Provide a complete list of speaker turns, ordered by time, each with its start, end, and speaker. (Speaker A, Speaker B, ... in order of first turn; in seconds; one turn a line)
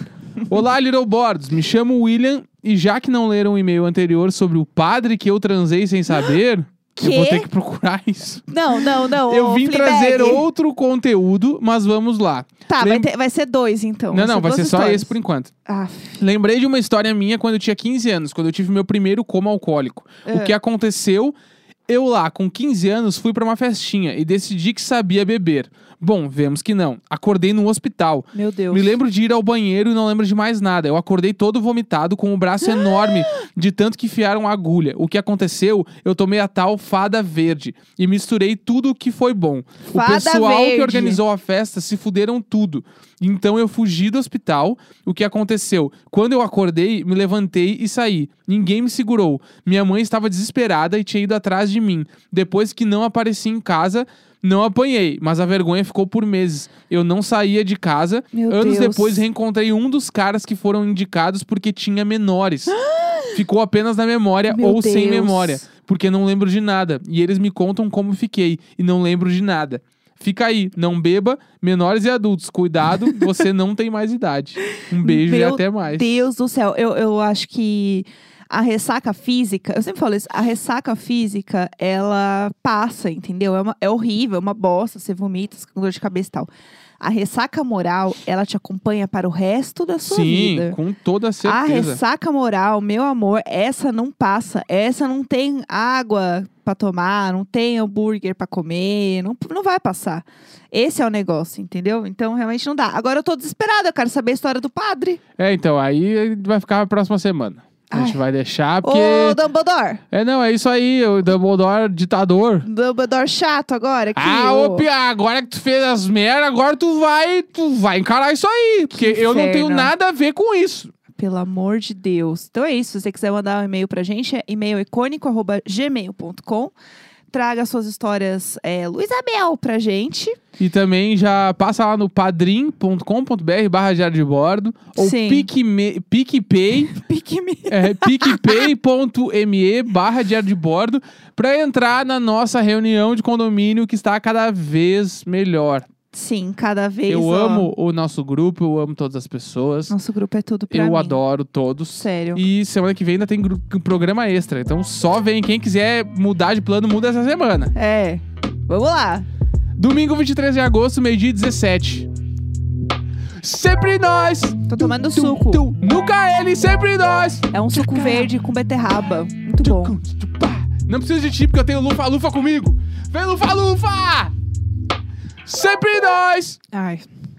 Speaker A: 0.4-13.1
Speaker B: 7.0-7.5
Speaker B: 8.5-10.4
Speaker B: 12.7-15.1
Speaker A: 14.1-15.5
Speaker B: 15.7-16.2
Speaker A: 16.2-21.3
Speaker B: 20.2-20.5
Speaker A: 21.9-62.8
Speaker B: 28.3-28.9
Speaker B: 32.8-33.1
Speaker B: 39.9-41.2
Speaker B: 58.3-59.2
Speaker B: 62.8-63.4
Speaker A: 63.3-76.2
Speaker B: 64.5-65.6
Speaker B: 75.0-86.5
Speaker B: 87.0-90.8
Speaker A: 90.0-92.0
Speaker B: 91.4-105.2
Speaker A: 105.4-109.4
Speaker B: 107.9-108.2
Speaker B: 108.8-110.0
Speaker A: 110.1-112.7
Speaker B: 112.6-114.8
Speaker A: 114.2-120.9
Speaker B: 118.9-119.9
Speaker B: 121.1-126.7
Speaker B: 127.3-130.4
Speaker A: 130.6-136.9
Speaker B: 134.9-135.5
Speaker B: 136.9-138.6
Speaker A: 137.7-145.8
Speaker B: 146.1-147.7
Speaker A: 147.1-149.9
Speaker B: 149.9-151.2
Speaker A: 150.7-157.7
Speaker B: 152.0-152.4
Speaker B: 157.7-159.2
Speaker A: 159.8-162.1
Speaker A: 163.4-168.3
Speaker B: 164.7-165.6
Speaker B: 167.5-169.9
Speaker A: 169.6-174.3
Speaker A: 175.4-176.6
Speaker B: 176.7-177.1